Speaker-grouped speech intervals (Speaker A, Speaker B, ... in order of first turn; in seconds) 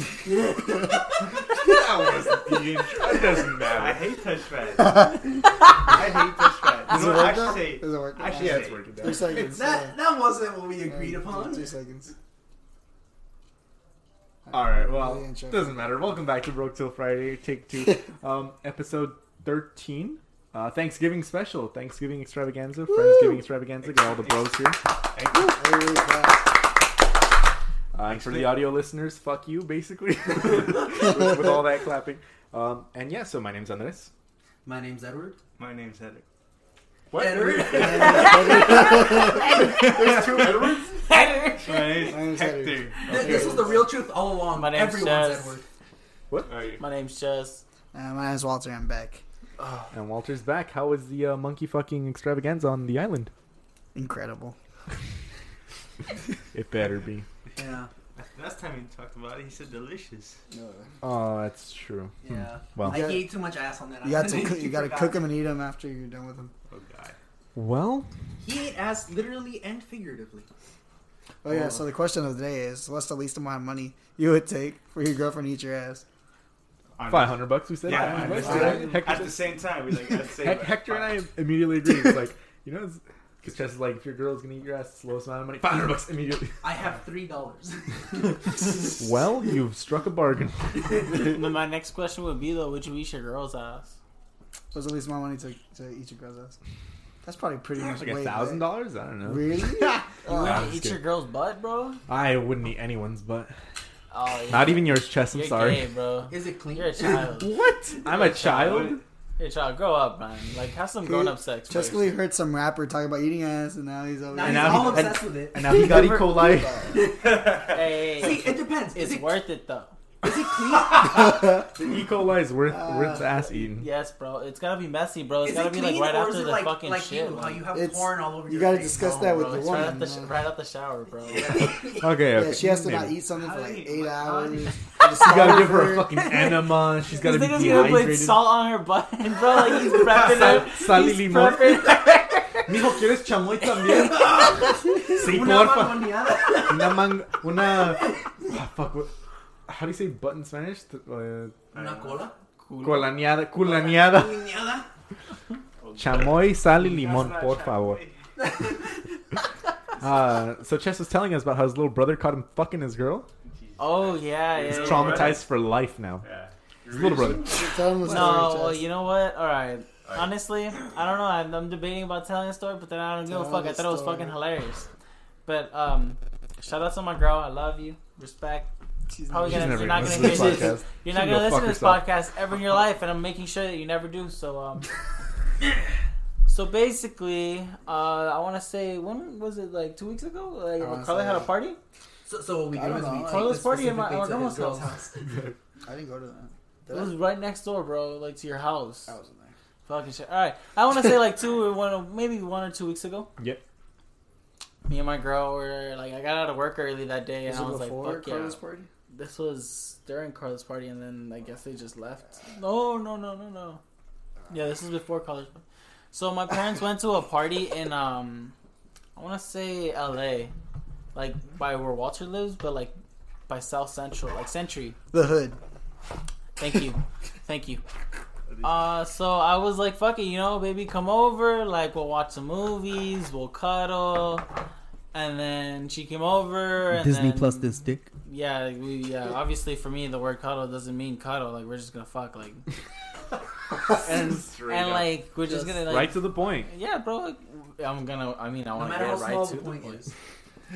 Speaker A: 1.4-4.1, 8.3-9.5, 14.5-24.8, 27.9-34.1, 37.1-41.2, 43.1-43.6, 49.9-53.3, 56.5-57.2, 61.0-62.1, 62.7-63.1, 67.5-68.1, 77.1-79.5, 80.3-86.6, 88.8-91.2, 97.8-101.0, 102.1-103.5, 104.5-105.8, 107.3-109.0, 114.4-117.0, 120.8-123.9, 131.5-133.2, 135.1-138.5, 140.2-149.1, 149.7-151.7, 152.8-154.5, 155.9-158.0, 160.0-163.3, 164.6-166.2, 166.9-168.3, 179.4-182.0, 195.2-195.6, 203.4-203.6, 243.9-245.2, 245.7-246.7
Speaker B: 3.6-5.2, 5.8-8.8, 23.8-24.6, 25.1-25.5, 28.1-28.6, 35.6-36.2, 41.6-43.8, 46.4-46.8, 58.1-60.4, 66.7-67.2, 77.0-81.2, 108.4-109.0, 117.1-117.9, 131.3-131.9, 133.3-134.8, 140.0-140.6, 151.7-152.3, 155.8-158.2, 163.4-165.5, 166.2-167.3
Speaker C: 6.9-9.9, 10.9-12.1, 14.4-15.9, 25.3-26.5, 37.7-39.6, 42.0-43.8, 47.9-49.2, 53.9-54.5, 60.5-60.9, 62.9-63.2, 64.0-66.5, 71.4-76.0, 78.1-78.8, 94.7-96.5, 97.2-98.7, 99.2-100.7, 111.0-115.2, 115.7-117.0, 121.0-121.7, 122.7-123.3, 127.7-130.3, 132.3-136.1, 167.5-168.8, 173.3-174.3, 179.1-180.7, 190.8-191.5, 192.7-193.6, 195.8-197.1, 199.1-199.5, 207.4-208.9, 225.1-225.6
Speaker D: 9.1-11.7, 34.6-35.4, 37.1-39.8, 43.1-45.6, 57.5-57.9, 62.2-65.2, 68.4-70.5, 71.4-71.8, 78.4-78.7, 86.6-88.7, 106.3-107.3, 114.3-115.8, 116.9-119.4, 120.2-121.5, 125.4-129.4, 131.3-132.1, 144.1-148.3, 151.7-152.3, 153.6-154.9, 158.4-159.0, 167.0-167.5, 192.3-195.2, 236.9-238.1, 248.7-250.1
Speaker E: 38.0-39.5, 41.0-42.1, 44.5-45.6, 46.8-47.6, 91.1-94.0, 100.3-102.0, 104.1-112.1, 115.7-116.5, 117.7-119.9, 123.7-127.6, 128.9-131.6, 137.1-142.6, 143.6-144.4, 152.6-153.2, 163.8-165.4, 168.1-174.9, 175.4-178.7, 179.3-184.9, 186.5-191.8, 193.3-195.0, 196.9-199.1, 199.8-203.3, 204.9-208.6, 209.1-213.8, 214.5-218.5, 219.2-220.5, 221.1-222.9, 223.5-225.0, 226.6-227.8, 228.6-234.4, 235.1-237.6, 238.2-242.6, 244.6-250.1